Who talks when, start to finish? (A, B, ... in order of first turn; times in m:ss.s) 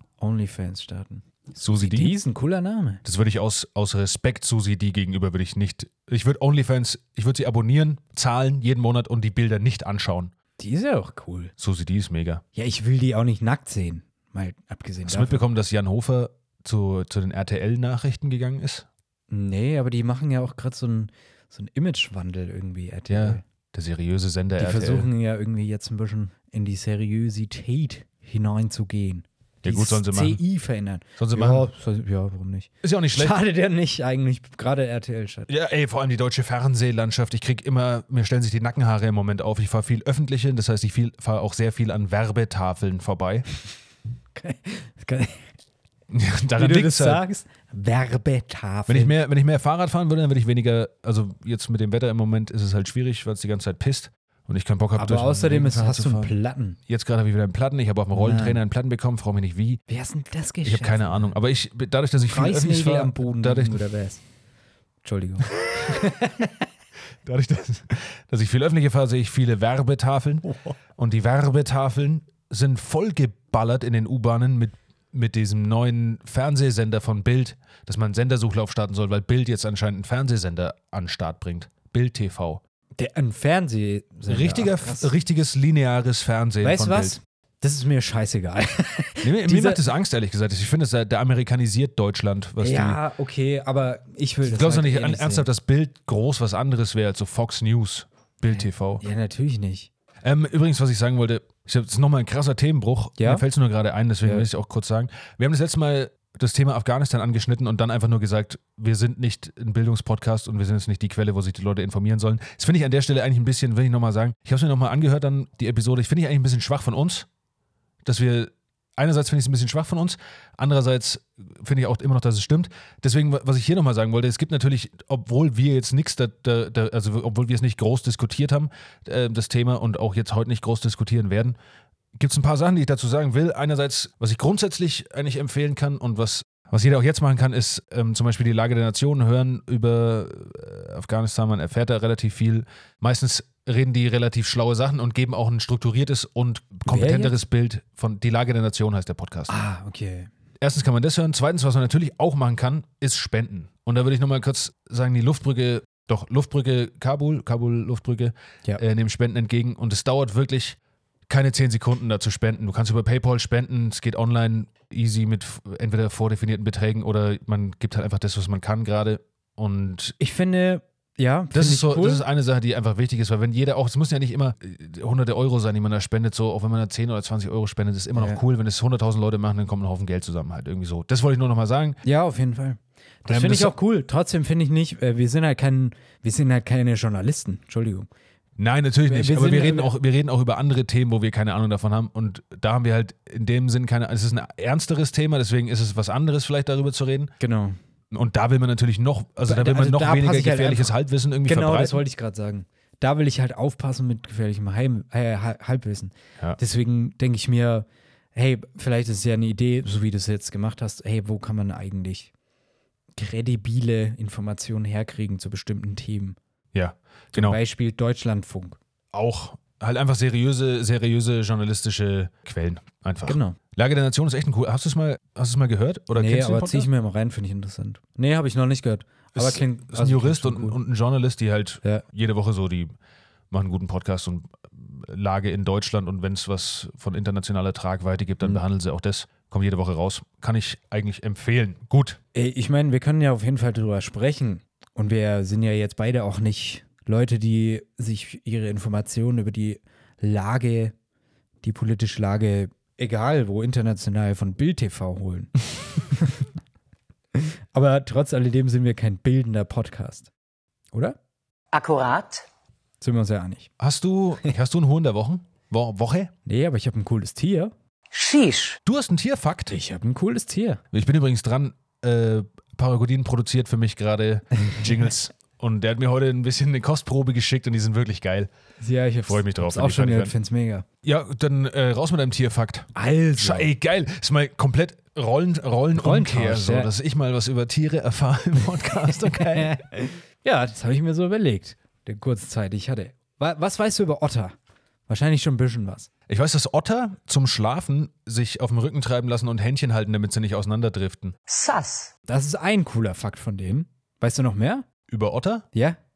0:00.2-0:03.0 A
0:01.6-0:02.2 B
0:03.0-0:10.3 B
0:10.6-0:11.5 A
0:11.6-0:12.4 B
0:12.6-0:15.5 A
0:15.1-0:18.9 B
0:19.3-0:23.4 A
0:23.1-0:25.1 B
0:24.6-0:35.5 A
0:29.6-0:30.4 B
0:31.2-0:31.7 B
0:32.8-0:33.4 B
0:35.5-0:43.4 B
0:44.4-0:45.4 A
0:46.1-0:47.2 B
0:46.6-0:49.1 A
0:48.9-0:56.3 B
0:55.0-0:56.8 A
0:56.9-0:59.8 B
0:58.1-0:58.6 A
0:59.9-1:01.4 A
1:00.6-1:03.8 B
1:02.2-1:04.2 A
1:05.0-1:06.5 A
1:07.2-1:22.6 B
1:10.5-1:10.7 A
1:23.0-1:25.1 A
1:24.3-1:27.2 B
1:26.6-1:29.8 A
1:29.2-1:33.0 B
1:32.6-1:35.5 A
1:34.4-1:39.0 B
1:38.5-1:39.9 A
1:40.2-1:57.3 B
1:43.2-1:43.4 A
1:58.0-2:11.6 B
2:12.2-2:29.6 B
2:26.9-2:27.3 A
2:29.5-2:30.3 A
2:30.6-2:40.8 B
2:41.3-2:50.2 B
2:50.2-2:52.2 A
2:51.5-3:02.0 B
2:58.2-2:58.4 A
3:02.0-3:08.1 A
3:03.3-3:03.7 B
3:08.6-3:17.3 B
3:09.1-3:09.9 A
3:17.4-3:17.8 A
3:18.1-3:22.0 B
3:19.5-3:32.3 A
3:33.2-3:36.4 A
3:36.7-3:37.6 B
3:37.3-3:38.8 A
3:39.1-3:46.9 B
3:43.3-3:43.6 A
3:46.2-3:50.8 A
3:49.4-3:53.0 B
3:53.5-4:02.2 B
4:02.3-4:10.9 A
4:11.6-4:16.5 A
4:17.4-4:20.3 A
4:20.9-4:21.2 A
4:21.7-4:22.5 C
4:23.0-4:23.7 A
4:23.8-4:26.3 B
4:26.5-4:27.7 A
4:28.1-4:28.8 C
4:28.9-4:29.8 B
4:29.7-4:30.8 A
4:30.9-4:38.5 B
4:38.8-4:40.8 A
4:39.3-4:40.4 B
4:41.0-4:49.8 B
4:43.0-4:43.7 A
4:46.0-4:46.9 A
4:49.1-4:54.6 A
4:55.1-4:56.1 A
4:56.3-5:01.4 B
5:01.5-5:02.1 C
5:02.3-5:04.9 A
5:05.1-5:05.7 B